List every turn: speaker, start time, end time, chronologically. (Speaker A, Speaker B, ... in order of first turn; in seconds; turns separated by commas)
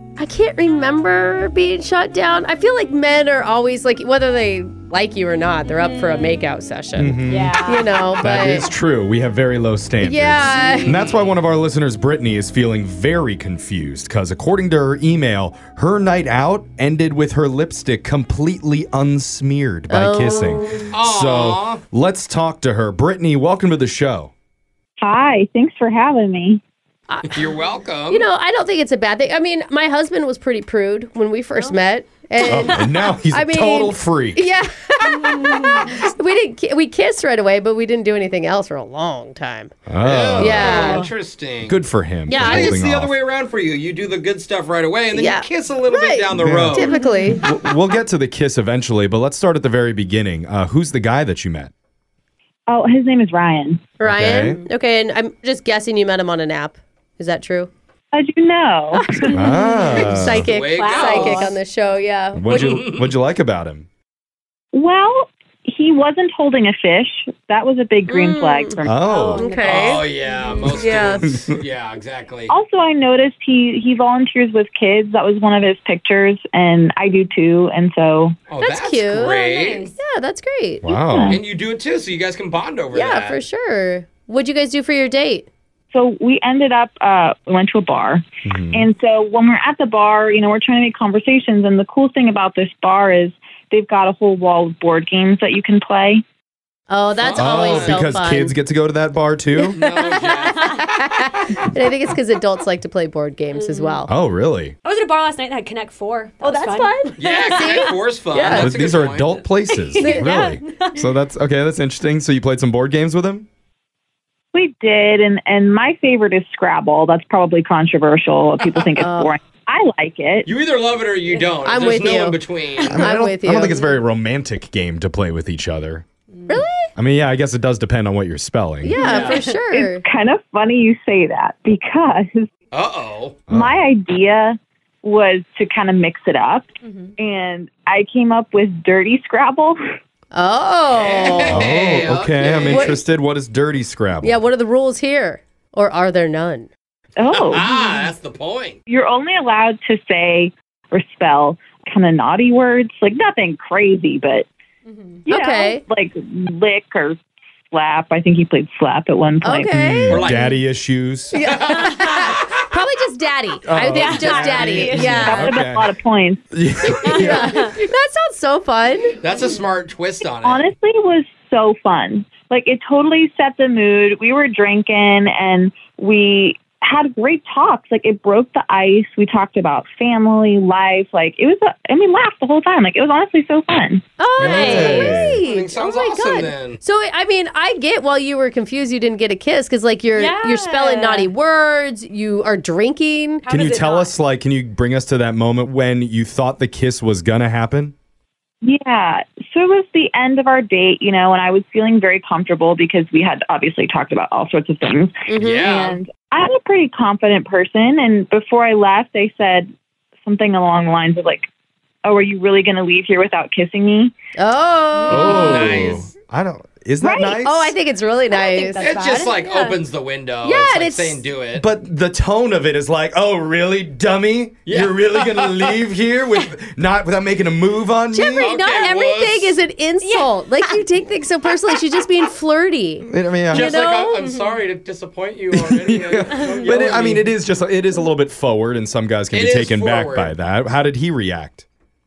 Speaker A: 0.2-8.7, Speaker B: 5.6-6.5, Speaker C: 7.0-7.5, Speaker B: 7.3-8.0, Speaker C: 8.2-24.3, Speaker A: 10.0-11.0, Speaker D: 10.5-11.4, Speaker A: 19.9-20.8, Speaker D: 20.9-21.8, Speaker E: 25.0-26.6, Speaker A: 27.1-27.5, Speaker D: 27.3-28.3, Speaker A: 28.1-39.7, Speaker C: 32.4-34.4, Speaker B: 35.1-36.1, Speaker C: 39.9-41.0, Speaker D: 40.0-46.9, Speaker A: 40.4-41.1, Speaker B: 40.6-41.1, Speaker C: 41.6-43.1, Speaker A: 42.3-42.7, Speaker A: 45.1-47.4, Speaker C: 46.3-46.9, Speaker B: 46.9-47.4, Speaker C: 47.4-51.7, Speaker E: 52.7-53.8, Speaker A: 54.0-57.7, Speaker C: 54.0-54.6, Speaker E: 58.1-59.0, Speaker A: 59.2-62.8, Speaker C: 59.3-60.5, Speaker D: 59.9-61.6, Speaker B: 60.5-61.6, Speaker C: 62.3-63.9, Speaker D: 62.5-63.1, Speaker E: 64.7-69.0, Speaker A: 68.1-70.1, Speaker C: 68.8-69.5, Speaker B: 69.0-70.6, Speaker D: 69.6-72.5, Speaker A: 70.7-71.3, Speaker E: 72.5-78.3, Speaker D: 78.5-79.9, Speaker A: 78.6-79.3, Speaker B: 79.2-80.0, Speaker A: 80.0-81.0, Speaker C: 80.8-81.4, Speaker E: 81.1-81.4, Speaker D: 81.3-83.4, Speaker A: 82.9-85.5, Speaker E: 85.9-96.2, Speaker C: 88.5-88.9, Speaker A: 96.9-98.6, Speaker D: 97.2-98.0, Speaker C: 97.4-99.8, Speaker D: 99.7-100.8, Speaker A: 100.0-104.1, Speaker B: 100.1-100.8, Speaker B: 103.6-104.0, Speaker C: 104.1-104.8, Speaker B: 104.8-107.9, Speaker A: 106.4-108.8, Speaker D: 107.2-109.5, Speaker C: 108.5-113.5, Speaker B: 109.7-111.1, Speaker A: 110.0-110.4, Speaker E: 114.5-120.5, Speaker A: 119.0-119.3, Speaker D: 120.5-123.0, Speaker A: 121.6-123.9, Speaker C: 122.9-126.0, Speaker A: 126.5-126.9, Speaker C: 127.0-129.0, Speaker A: 128.8-130.0, Speaker D: 129.0-129.4, Speaker B: 129.0-129.6, Speaker E: 129.7-132.5, Speaker D: 132.7-133.4, Speaker C: 133.5-133.8, Speaker E: 133.5-139.8, Speaker B: 136.8-137.1, Speaker A: 140.3-141.7, Speaker D: 140.9-143.0, Speaker C: 141.5-144.4, Speaker A: 142.6-143.0, Speaker A: 144.2-146.7, Speaker E: 147.2-148.0, Speaker D: 147.3-148.8, Speaker E: 148.9-154.5, Speaker B: 154.9-155.3, Speaker A: 155.3-155.8, Speaker E: 155.3-157.2, Speaker E: 157.7-159.7, Speaker A: 159.4-160.3, Speaker C: 159.7-161.3, Speaker D: 160.1-160.6, Speaker A: 161.3-165.6, Speaker D: 161.4-162.4, Speaker B: 161.9-162.3, Speaker C: 163.7-165.9, Speaker B: 164.0-165.2, Speaker E: 165.2-166.4, Speaker C: 166.5-167.7, Speaker B: 167.0-167.8, Speaker A: 167.2-169.2, Speaker D: 169.2-170.7, Speaker E: 170.4-184.0, Speaker A: 184.2-193.4, Speaker C: 184.4-185.4, Speaker B: 184.4-184.9, Speaker D: 184.6-186.8, Speaker B: 190.2-191.3, Speaker B: 193.4-194.1, Speaker C: 193.5-197.9, Speaker E: 198.6-209.7, Speaker A: 205.3-205.7, Speaker D: 205.3-206.0, Speaker E: 210.2-211.5, Speaker E: 212.1-214.2, Speaker A: 214.4-215.8, Speaker B: 215.0-215.6, Speaker C: 215.1-217.7, Speaker D: 215.3-216.1, Speaker E: 217.0-217.3, Speaker A: 217.4-218.9, Speaker B: 218.3-219.8, Speaker D: 218.8-221.7, Speaker A: 220.4-221.2, Speaker C: 221.6-228.5, Speaker D: 224.7-225.8, Speaker A: 228.1-234.2, Speaker D: 228.4-229.6, Speaker B: 230.0-230.8, Speaker C: 233.1-233.7, Speaker D: 233.5-237.3, Speaker B: 234.2-234.6, Speaker C: 235.5-241.7, Speaker B: 236.3-236.8, Speaker D: 239.3-240.3